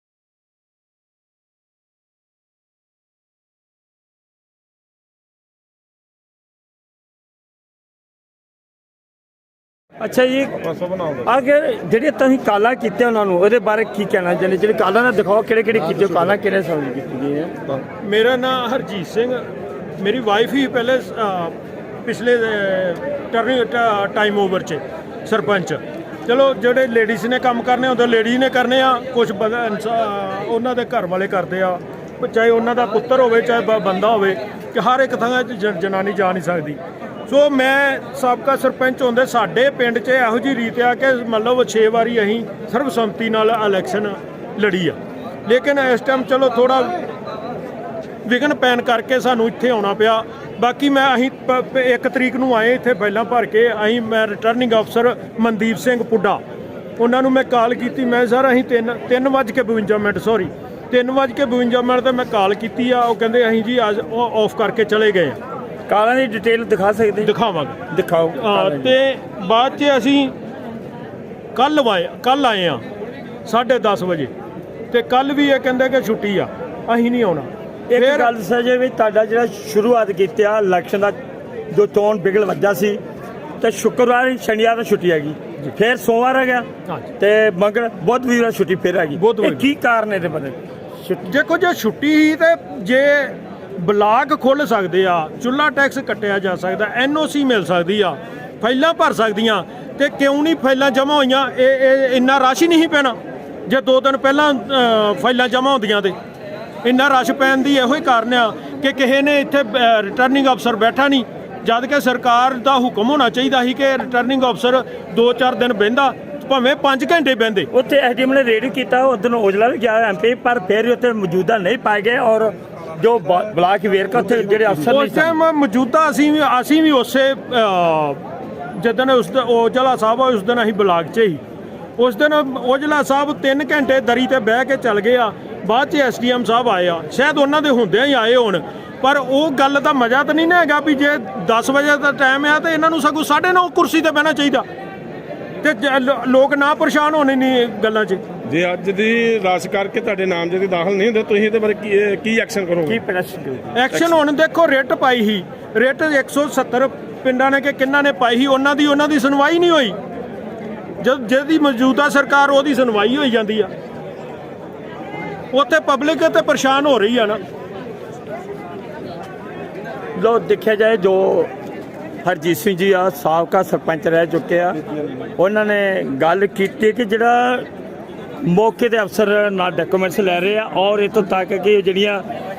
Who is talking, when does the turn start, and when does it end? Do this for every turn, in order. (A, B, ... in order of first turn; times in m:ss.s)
0:10.0-0:10.6 A
0:10.6-0:11.3 B
0:11.2-0:17.6 A
0:18.0-0:19.4 C
0:20.0-0:21.5 C
0:22.0-0:47.0 C
0:48.3-0:56.4 C
0:57.0-1:05.4 C
1:05.9-1:07.3 A
1:07.2-1:07.8 C
1:07.9-1:09.0 A
1:08.4-1:10.3 C
1:11.6-1:12.8 C
1:13.5-1:14.3 C
1:14.9-1:18.3 C
1:17.9-1:21.2 A
1:21.7-1:23.0 A
1:23.6-1:26.7 A
1:27.2-1:31.3 A
1:29.2-1:29.6 C
1:31.3-1:43.2 C
1:43.7-1:46.2 C
1:46.8-1:57.7 C
1:57.7-2:05.3 A
2:04.9-2:08.2 C
2:08.8-2:11.4 C
2:12.0-2:24.7 C
2:25.6-2:28.2 C
2:28.5-2:33.0 B
2:32.8-2:33.8 A
2:33.8-2:40.0 C
2:41.0-2:43.7 C
2:45.5-2:47.4 C
2:50.2-2:51.5 A
2:52.2-2:54.8 A
2:55.4-2:57.7 A
2:58.4-3:02.2 A